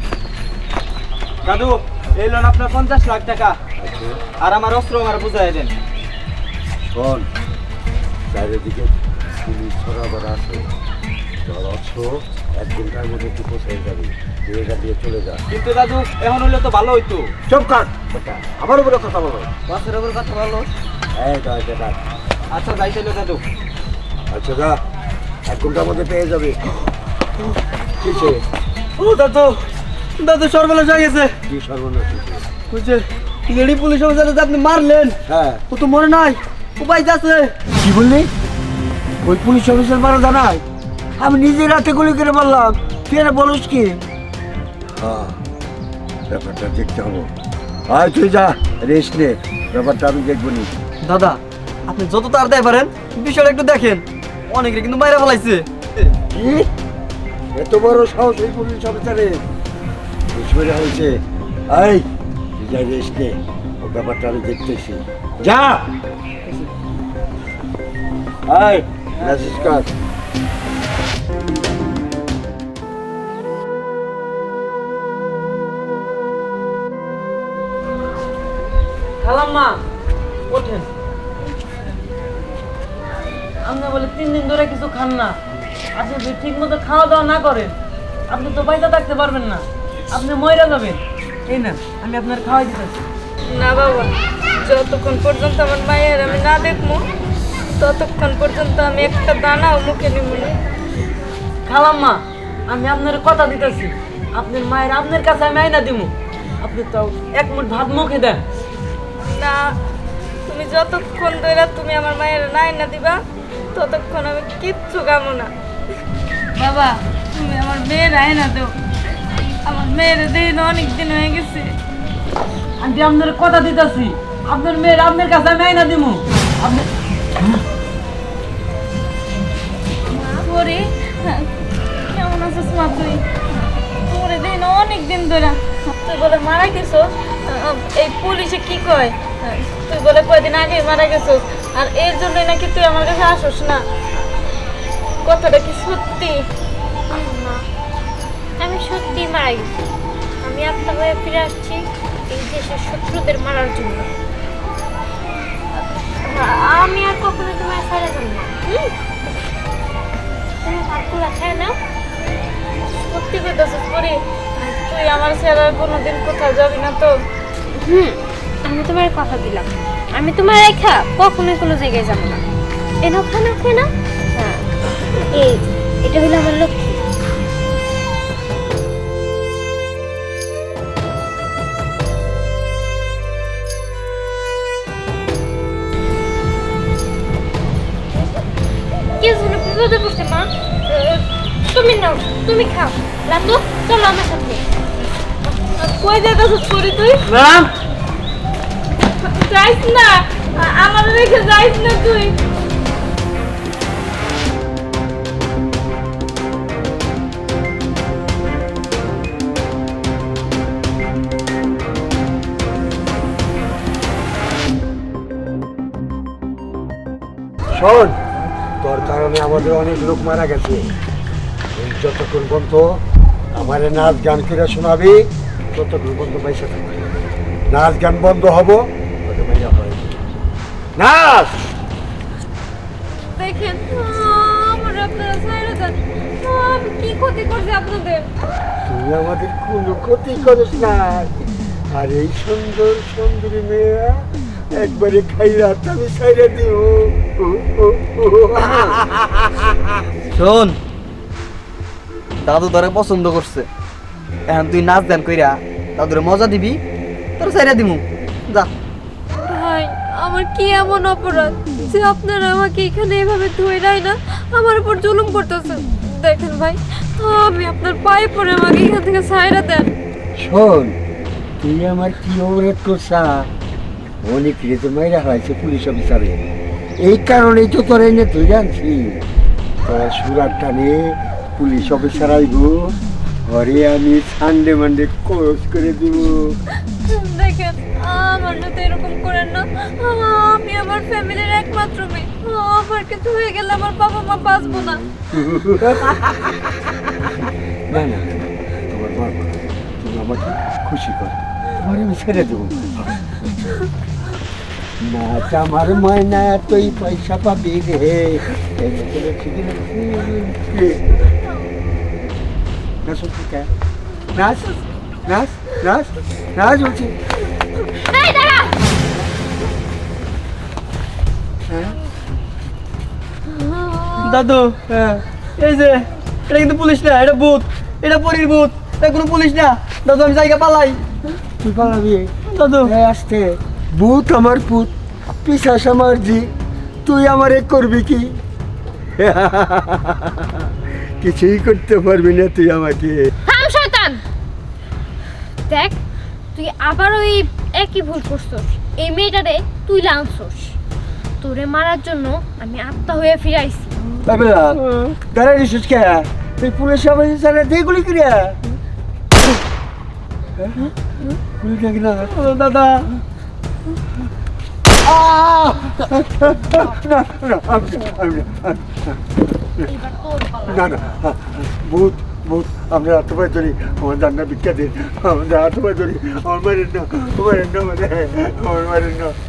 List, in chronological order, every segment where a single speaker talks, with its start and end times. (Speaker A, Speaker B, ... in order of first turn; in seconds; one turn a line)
Speaker A: 1.4-3.6
Speaker B: 3.8-4.2
Speaker A: 4.4-5.7
Speaker B: 6.9-7.3
Speaker B: 8.3-10.7
Speaker B: 11.4-15.4
Speaker A: 15.5-17.3
Speaker B: 17.5-19.5
Speaker A: 19.7-20.7
Speaker B: 21.1-22.0
Speaker A: 22.5-23.4
Speaker B: 24.3-24.8
Speaker B: 25.5-26.6
Speaker B: 28.0-28.4
Speaker A: 29.0-29.6
Speaker A: 30.2-31.4
Speaker B: 31.5-32.5
Speaker A: 32.7-35.2
Speaker B: 35.3-35.6
Speaker A: 35.7-37.5
Speaker B: 37.8-38.3
Speaker B: 39.2-40.6
Speaker B: 41.2-44.0
Speaker B: 45.0-45.4
Speaker B: 46.3-47.3
Speaker B: 47.9-50.7
Speaker A: 51.0-56.1
Speaker B: 56.3-56.7
Speaker B: 57.5-59.4
Speaker B: 60.3-62.1
Speaker B: 62.6-65.9
Speaker B: 68.5-69.9
Speaker C: 79.2-79.8
Speaker C: 80.5-80.9
Speaker C: 83.6-85.4
Speaker C: 86.0-87.8
Speaker C: 88.3-93.0
Speaker D: 93.5-97.0
Speaker D: 97.8-100.6
Speaker C: 101.7-108.4
Speaker D: 109.3-109.6
Speaker D: 110.5-113.2
Speaker D: 113.8-115.5
Speaker D: 116.6-118.7
Speaker D: 119.7-121.7
Speaker C: 122.8-126.9
Speaker E: 130.1-130.5
Speaker D: 130.4-131.5
Speaker D: 132.1-133.2
Speaker D: 134.1-143.8
Speaker D: 145.3-146.4
Speaker E: 147.1-147.6
Speaker E: 148.6-149.8
Speaker E: 150.4-154.1
Speaker E: 155.8-158.9
Speaker E: 160.6-161.8
Speaker D: 163.0-167.1
Speaker E: 167.8-172.4
Speaker E: 173.0-174.7
Speaker E: 175.3-177.0
Speaker E: 189.2-194.7
Speaker D: 195.8-197.2
Speaker C: 197.3-197.7
Speaker D: 199.2-202.4
Speaker B: 217.7-218.2
Speaker B: 218.8-220.9
Speaker B: 221.7-227.1
Speaker B: 227.7-230.4
Speaker B: 230.9-231.7
Speaker E: 233.1-238.2
Speaker B: 238.8-249.9
Speaker A: 250.3-250.8
Speaker A: 252.4-253.7
Speaker A: 254.5-256.8
Speaker A: 257.4-258.7
Speaker F: 259.5-269.9
Speaker B: 270.4-271.0
Speaker B: 271.6-273.5
Speaker B: 274.2-276.4
Speaker B: 277.0-279.2
Speaker B: 279.9-286.6
Speaker F: 287.1-294.9
Speaker E: 287.5-287.9
Speaker E: 291.8-294.0
Speaker B: 294.5-303.4
Speaker B: 305.0-311.0
Speaker B: 313.0-313.7
Speaker B: 314.3-314.7
Speaker B: 315.3-317.2
Speaker E: 318.1-318.8
Speaker B: 321.7-322.0
Speaker E: 323.5-324.4
Speaker A: 324.2-324.9
Speaker B: 324.9-325.2
Speaker A: 325.6-331.0
Speaker B: 331.6-334.9
Speaker A: 332.5-332.9
Speaker B: 335.4-336.5
Speaker B: 337.1-338.4
Speaker B: 339.2-343.3
Speaker E: 343.5-344.2
Speaker E: 345.7-346.0
Speaker E: 346.5-350.8
Speaker E: 351.4-354.0
Speaker B: 354.3-358.6
Speaker B: 360.6-362.3
Speaker A: 362.2-363.1
Speaker B: 365.0-369.4
Speaker E: 369.9-370.9
Speaker B: 370.7-379.4